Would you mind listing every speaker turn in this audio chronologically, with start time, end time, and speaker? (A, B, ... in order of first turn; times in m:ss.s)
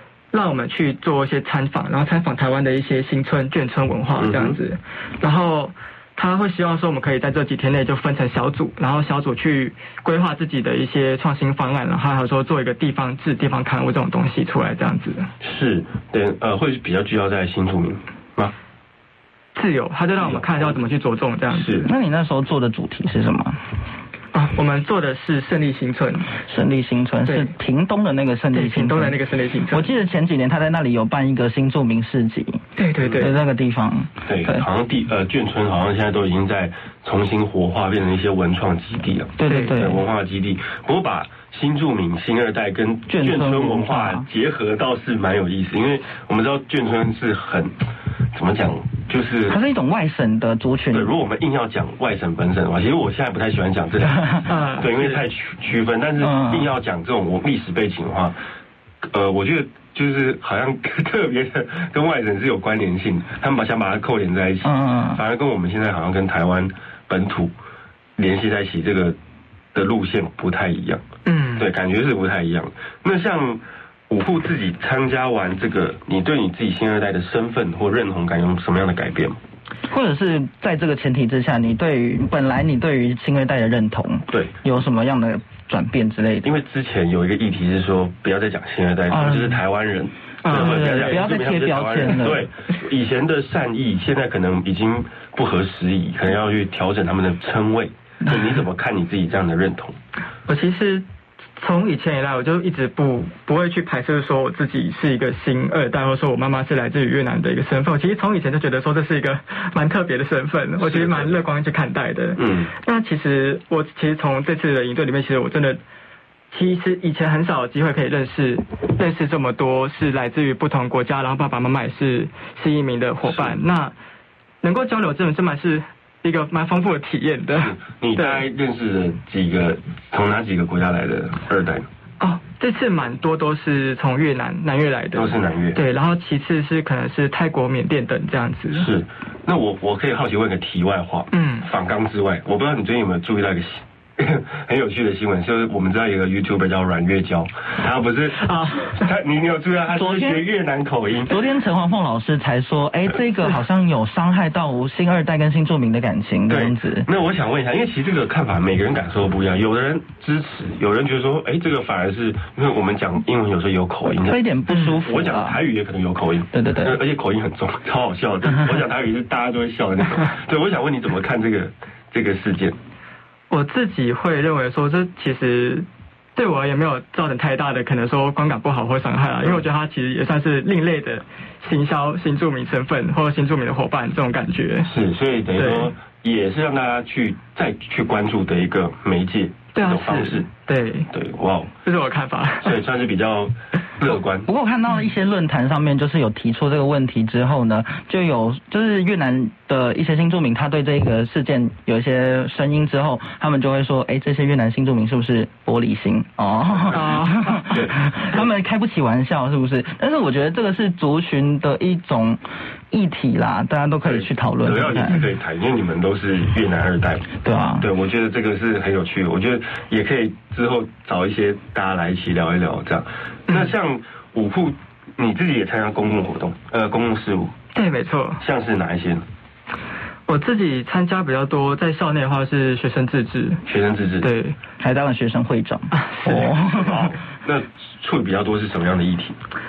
0:00.3-0:15.3 A
0:04.2-0:04.6 B
0:15.4-0:18.5 B
0:19.6-0:21.9 A
0:20.2-0:20.8 B
0:21.6-0:21.9 B
0:21.8-0:23.6 C
0:24.3-0:26.5 A
0:26.5-0:29.2 C
0:27.2-0:27.6 A
0:28.5-0:30.0 A
0:29.7-0:32.6 C
0:32.8-0:33.4 A
0:33.0-0:33.3 B
0:33.2-0:34.7 C
0:34.3-0:47.7 B
0:39.4-0:40.1 C
0:39.4-0:39.9 A
0:43.1-0:44.3 C
0:48.3-0:49.6 B
0:49.5-0:51.1 C
0:50.9-0:58.4 B
0:54.1-0:54.4 C
0:54.4-0:55.3 A
0:56.2-0:56.7 C
0:59.0-1:07.5 B
1:04.6-1:05.2 C
1:08.2-1:09.2 B
1:09.7-1:11.0 B
1:11.3-1:11.7 A
1:11.6-1:19.4 B
1:19.9-1:26.5 C
1:26.4-1:40.0 B
1:29.1-1:29.6 C
1:30.4-1:31.3 A
1:30.5-1:32.5 C
1:40.5-1:41.0 A
1:41.6-1:55.8 A
1:50.8-1:51.4 B
1:52.4-1:52.7 B
1:56.5-2:04.0 A
2:03.2-2:03.6 B
2:04.6-2:08.5 A
2:07.6-2:11.9 B
2:12.2-2:18.9 A
2:15.1-2:15.8 B
2:18.8-2:31.4 B
2:21.3-2:21.7 A
2:28.3-2:29.2 A
2:29.9-2:30.5 C
2:31.3-2:37.1 C
2:36.5-2:44.5 B
2:44.1-2:45.6 C
2:44.7-2:45.0 A
2:45.0-2:52.8 B
2:46.5-2:47.0 C
2:53.5-3:04.9 A
3:04.9-3:10.5 B
3:05.5-3:06.0 A
3:09.7-3:11.1 A
3:11.1-3:11.7 B
3:11.8-3:12.8 A
3:12.7-3:14.5 B
3:14.1-3:35.2 C
3:26.8-3:27.1 B
3:26.9-3:27.7 A
3:27.7-3:28.0 B
3:34.0-3:47.5 B
3:35.0-3:35.3 A
3:37.4-3:37.9 C
3:43.5-3:43.8 A
3:47.7-3:48.4 A
3:48.4-3:49.2 B
3:50.3-3:53.6 A
3:53.7-3:54.3 B
3:54.2-3:54.6 A
3:54.8-3:57.1 C
3:55.9-3:57.1 A
3:56.9-3:59.4 B